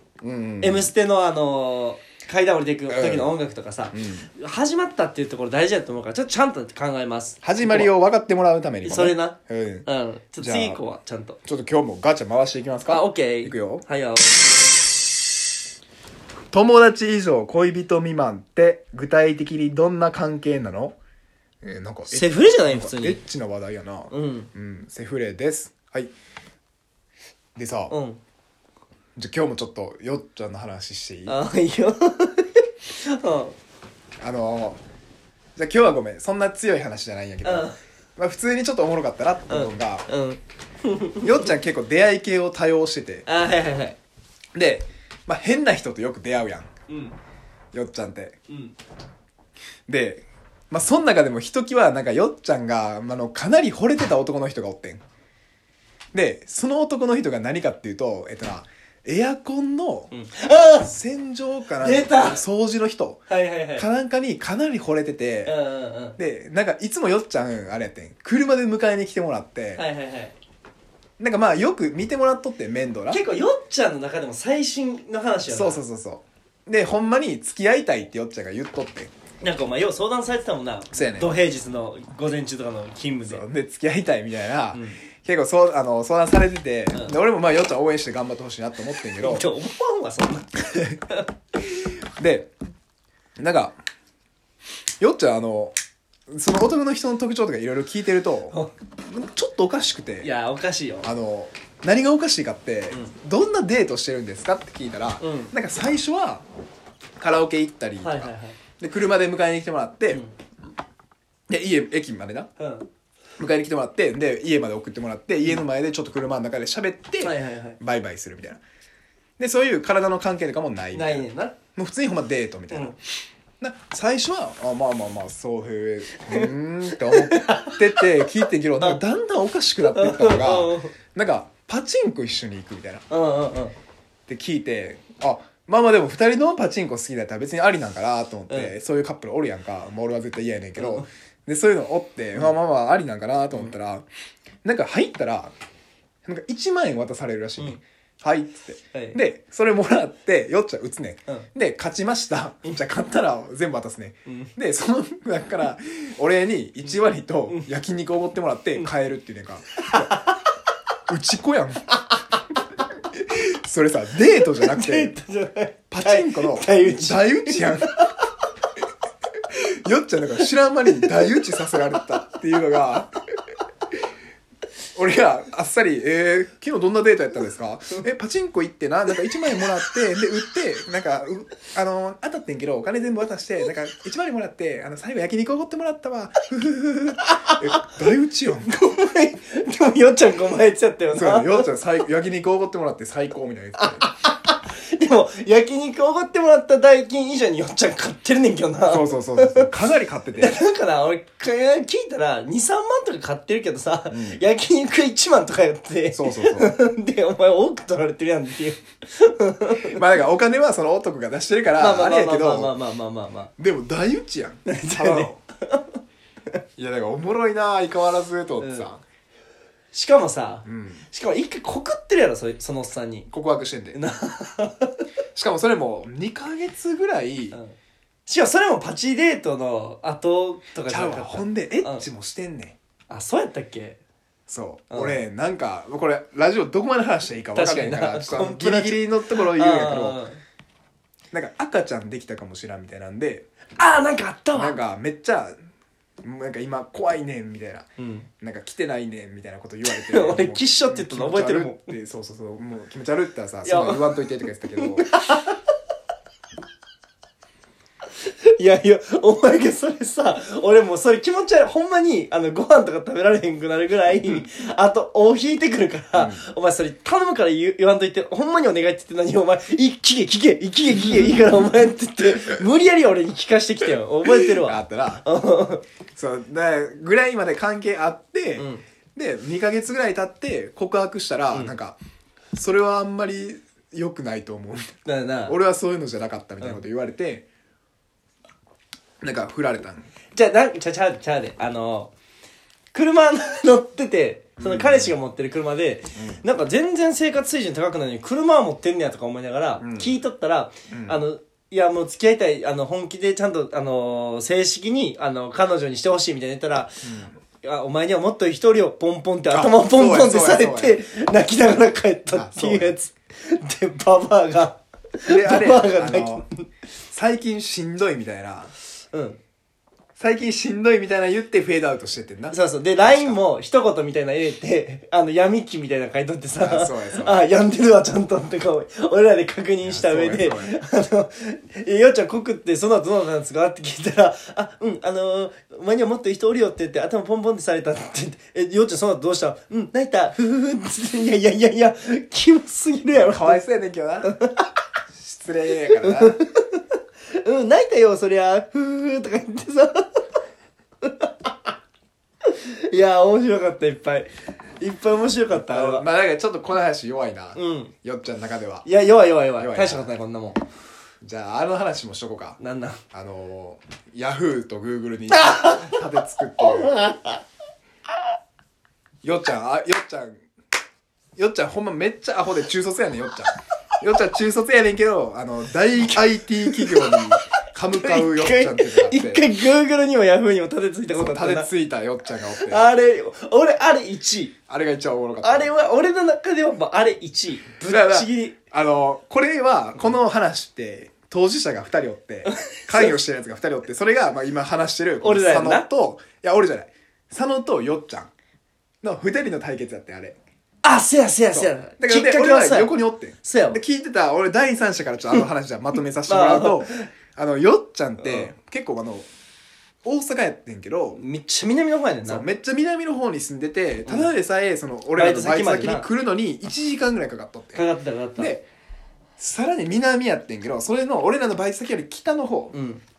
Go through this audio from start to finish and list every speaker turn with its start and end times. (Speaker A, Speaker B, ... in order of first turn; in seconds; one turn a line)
Speaker A: 0.2-0.9
Speaker B: 0.6-7.9
Speaker A: 2.9-3.3
Speaker A: 3.9-4.3
Speaker A: 7.4-9.9
Speaker B: 8.8-11.4
Speaker A: 10.4-10.8
Speaker A: 11.4-13.8
Speaker B: 12.9-14.5
Speaker A: 16.5-20.9
Speaker A: 21.6-26.1
Speaker B: 22.1-23.2
Speaker B: 24.1-24.5
Speaker A: 27.6-27.9
Speaker B: 27.9-28.2
Speaker A: 29.1-31.4
Speaker B: 31.3-33.5
Speaker A: 34.2-34.8
Speaker A: 35.5-40.1
Speaker B: 37.4-37.8
Speaker B: 39.5-41.5
Speaker A: 41.2-43.2
Speaker B: 43.2-44.0
Speaker A: 44.5-46.7
Speaker B: 46.9-47.1
Speaker A: 47.7-48.4
Speaker B: 48.5-48.7
Speaker A: 49.9-55.0
Speaker A: 56.1-60.1
Speaker B: 60.1-60.9
Speaker A: 60.8-65.5
Speaker B: 61.8-62.4
Speaker B: 63.3-63.9
Speaker B: 65.5-66.2
Speaker A: 66.2-69.8
Speaker B: 69.8-70.3
Speaker A: 71.2-73.2
Speaker B: 73.1-75.8
Speaker A: 75.5-79.1
Speaker B: 79.4-83.4
Speaker A: 80.9-81.4
Speaker A: 83.2-89.5
Speaker B: 84.7-85.0
Speaker B: 89.2-91.2
Speaker A: 92.2-92.5
Speaker A: 93.4-93.8
Speaker A: 95.0-95.8
Speaker A: 96.3-100.3
Speaker B: 100.2-101.1
Speaker A: 101.0-106.4
Speaker B: 105.2-105.5
Speaker A: 107.2-110.2
Speaker B: 108.0-108.6
Speaker A: 111.5-112.5
Speaker B: 112.6-112.9
Speaker A: 113.4-118.6
Speaker B: 117.2-117.8
Speaker A: 119.4-123.0
Speaker B: 120.9-121.5
Speaker B: 122.7-122.9
Speaker A: 123.6-133.0
Speaker B: 126.2-128.3
Speaker B: 129.9-130.9
Speaker B: 133.1-133.7
Speaker A: 134.3-144.1
Speaker B: 140.8-141.1
Speaker A: 144.6-145.5
Speaker A: 146.2-160.2
Speaker B: 154.3-154.5
Speaker B: 159.8-160.3
Speaker A: 161.1-161.9
Speaker A: 163.3-165.2
Speaker B: 164.5-168.2
Speaker A: 165.9-168.0
Speaker A: 169.5-173.1
Speaker B: 170.9-171.4
Speaker A: 174.9-188.7
Speaker B: 187.2-188.0
Speaker B: 188.5-191.7
Speaker A: 191.1-194.1
Speaker B: 193.8-199.7
Speaker A: 198.8-200.6
Speaker B: 200.4-210.0
Speaker A: 204.1-204.4
Speaker A: 206.1-206.8
Speaker A: 209.8-212.8
Speaker B: 211.8-213.5
Speaker A: 213.6-215.4
Speaker B: 214.7-215.9
Speaker A: 216.8-219.0
Speaker B: 218.6-218.9
Speaker B: 219.9-223.3
Speaker A: 220.6-221.0
Speaker A: 223.3-224.0
Speaker B: 223.9-225.0
Speaker A: 225.3-227.6
Speaker B: 228.3-232.1
Speaker A: 230.9-232.8
Speaker B: 233.1-234.0
Speaker A: 234.5-240.2
Speaker B: 234.9-235.2
Speaker B: 237.6-240.4
Speaker A: 241.3-243.4
Speaker B: 243.8-244.8
Speaker A: 244.5-245.6
Speaker A: 246.2-247.9
Speaker B: 248.0-248.3
Speaker A: 248.4-255.1
Speaker B: 249.8-251.9
Speaker B: 253.6-255.6
Speaker B: 258.2-275.8
Speaker A: 266.1-266.4
Speaker A: 271.0-271.4
Speaker A: 274.2-275.3
Speaker A: 276.1-282.0
Speaker B: 278.6-278.8
Speaker A: 282.5-284.9
Speaker B: 285.0-285.6
Speaker A: 285.5-287.4
Speaker A: 289.2-290.1
Speaker B: 290.3-292.1
Speaker B: 292.9-307.0
Speaker A: 294.6-295.2
Speaker A: 296.1-296.4
Speaker A: 299.8-300.2
Speaker A: 300.9-301.2
Speaker A: 307.0-307.4
Speaker B: 307.6-316.6
Speaker A: 309.5-311.0
Speaker A: 312.3-312.9
Speaker A: 315.3-316.4
Speaker A: 317.1-318.7
Speaker B: 319.1-319.4
Speaker A: 320.2-323.4
Speaker B: 322.5-343.6
Speaker A: 326.6-327.4
Speaker A: 329.8-330.7
Speaker A: 343.1-344.4
Speaker B: 344.2-344.7
Speaker A: 345.1-346.4
Speaker B: 346.0-350.2
Speaker B: 351.0-351.7
Speaker B: 352.4-354.3
Speaker B: 354.8-356.0
Speaker A: 355.5-358.9
Speaker B: 357.5-357.9
Speaker B: 358.8-360.6
Speaker A: 359.6-360.1
Speaker A: 361.2-362.6
Speaker B: 362.6-363.0
Speaker A: 363.1-367.0
Speaker B: 365.3-366.0
Speaker B: 366.6-367.4
Speaker A: 369.2-370.4
Speaker A: 371.4-379.4
Speaker B: 376.1-377.2
Speaker B: 377.9-381.7
Speaker A: 381.1-382.9
Speaker B: 382.6-384.5
Speaker A: 384.7-385.7
Speaker B: 385.4-388.6
Speaker A: 387.9-398.3
Speaker B: 392.4-393.2
Speaker B: 395.2-395.9
Speaker A: 399.0-400.4
Speaker B: 400.8-403.8
Speaker A: 401.5-409.3
Speaker B: 406.3-407.0
Speaker B: 408.2-408.5
Speaker A: 410.0-411.2
Speaker B: 411.1-412.4
Speaker A: 412.2-417.8
Speaker B: 414.1-414.3
Speaker B: 415.1-416.1
Speaker B: 417.7-418.5
Speaker A: 418.4-418.6
Speaker A: 419.4-422.7
Speaker B: 422.7-423.0